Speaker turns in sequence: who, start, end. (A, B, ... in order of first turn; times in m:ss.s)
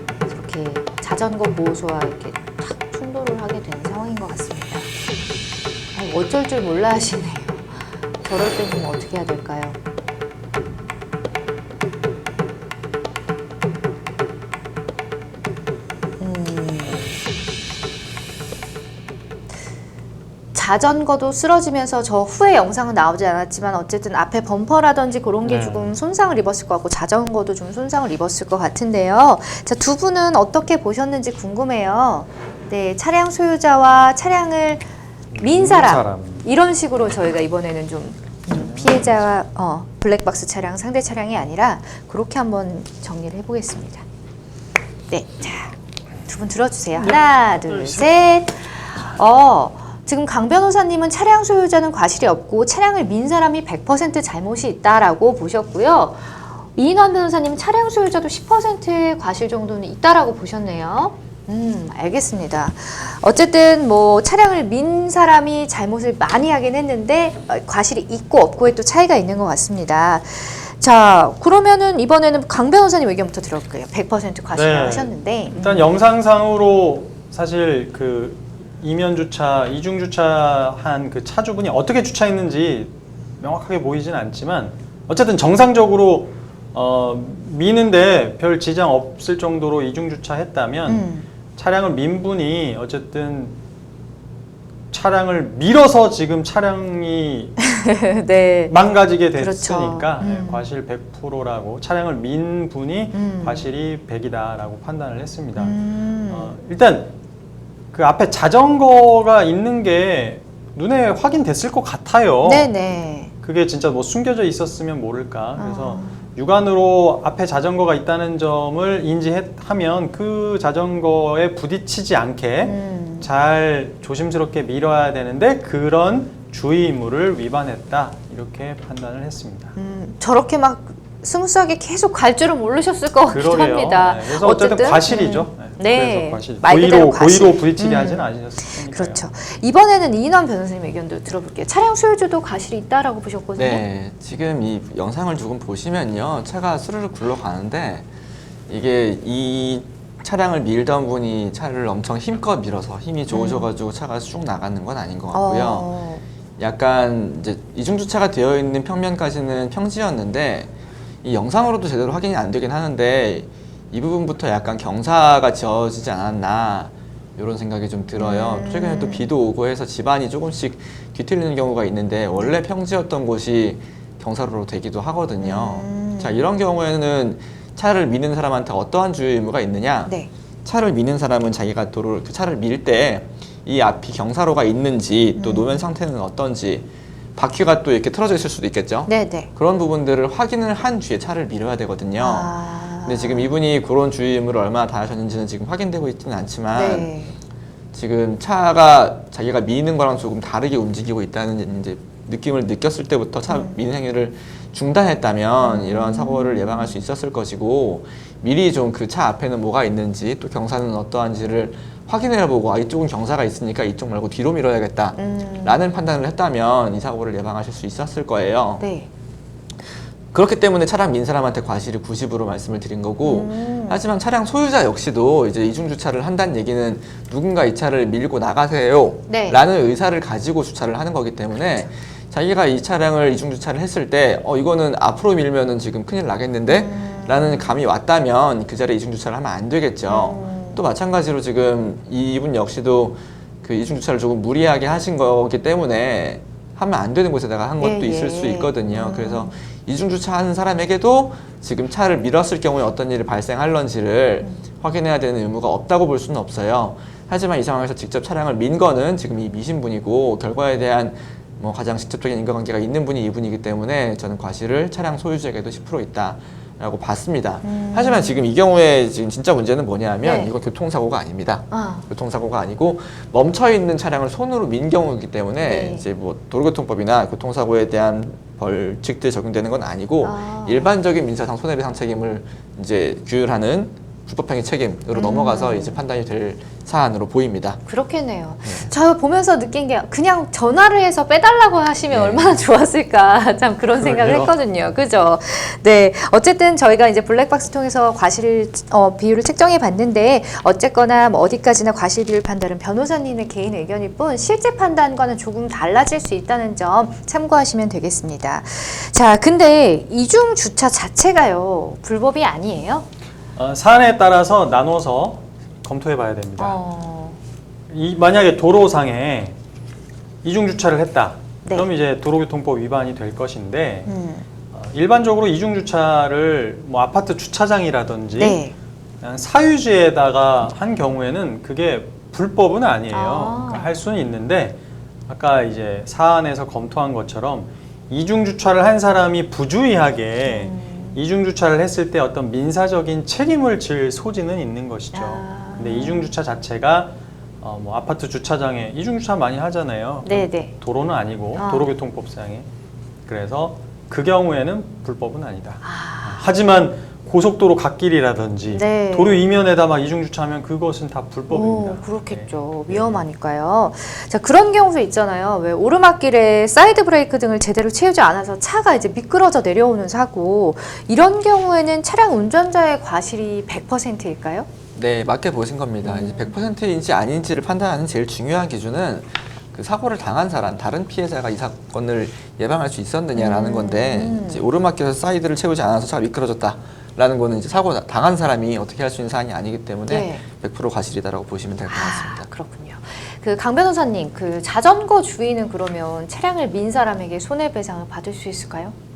0:00.3-0:04.9 A
0:05.9-0:09.8 A
0:16.2-0:17.2 A
0:20.5-0:34.8 A
0:25.4-0:25.9 B
0:35.3-0:36.5 B
0:35.4-0:44.0 A
0:45.1-1:15.8 A
0:47.0-0:48.1 B
1:14.5-1:33.5 B
1:30.9-1:31.3 A
1:34.9-1:37.6 B
1:37.6-1:38.8 A
1:38.7-1:47.1 B
1:39.3-1:40.6 A
1:43.1-1:43.6 A
1:45.6-1:46.5 A
1:47.9-1:52.7 B
1:52.4-1:53.3 A
1:53.4-2:09.7 B
1:55.6-1:56.2 A
2:02.6-2:03.3 A
2:09.8-2:23.8 A
2:13.3-2:19.2 B
2:23.6-2:28.0 C
2:28.7-2:35.9 C
2:33.3-2:33.7 A
2:35.3-2:36.2 A
2:36.6-2:40.7 C
2:41.2-3:12.5 C
2:48.2-2:49.3 A
2:55.4-2:56.4 A
3:05.4-3:05.8 A
3:09.1-3:09.5 A
3:12.2-3:13.5 A
3:13.0-3:17.1 C
3:16.7-3:17.4 A
3:17.9-3:38.8 C
3:23.5-3:23.8 A
3:25.6-3:27.0 A
3:35.2-3:35.8 A
3:38.8-3:39.1 A
3:40.3-4:47.8 C
3:43.2-3:44.0 A
3:49.3-3:49.6 A
3:56.7-3:57.8 A
4:00.1-4:00.8 A
4:07.8-4:09.5 A
4:27.6-4:28.4 A
4:30.2-4:30.5 A
4:31.7-4:32.1 A
4:35.6-4:36.0 A
4:40.2-4:40.9 A
4:45.1-4:46.0 A
4:47.8-5:13.0 A
4:48.6-4:48.9 C
4:52.1-4:52.6 C
4:54.0-4:54.5 B
5:13.6-5:16.8 B
5:16.6-5:17.4 A
5:17.9-5:19.6 B
5:20.4-5:24.1 B
5:24.0-5:24.4 A
5:24.7-5:28.6 B
5:28.4-5:28.7 A
5:29.2-5:34.8 B
5:33.1-5:33.9 A
5:35.3-5:52.7 B
5:40.4-5:41.2 A
5:45.1-5:46.4 A
5:50.2-5:50.7 A
5:51.6-5:51.9 A
5:53.2-6:03.2 B
5:55.8-5:56.5 A
5:58.7-5:59.4 A
6:01.5-6:14.7 A
6:14.9-6:32.4 C
6:16.0-6:16.5 A
6:23.3-6:24.7 A
6:30.1-6:30.4 A
6:31.9-6:38.9 A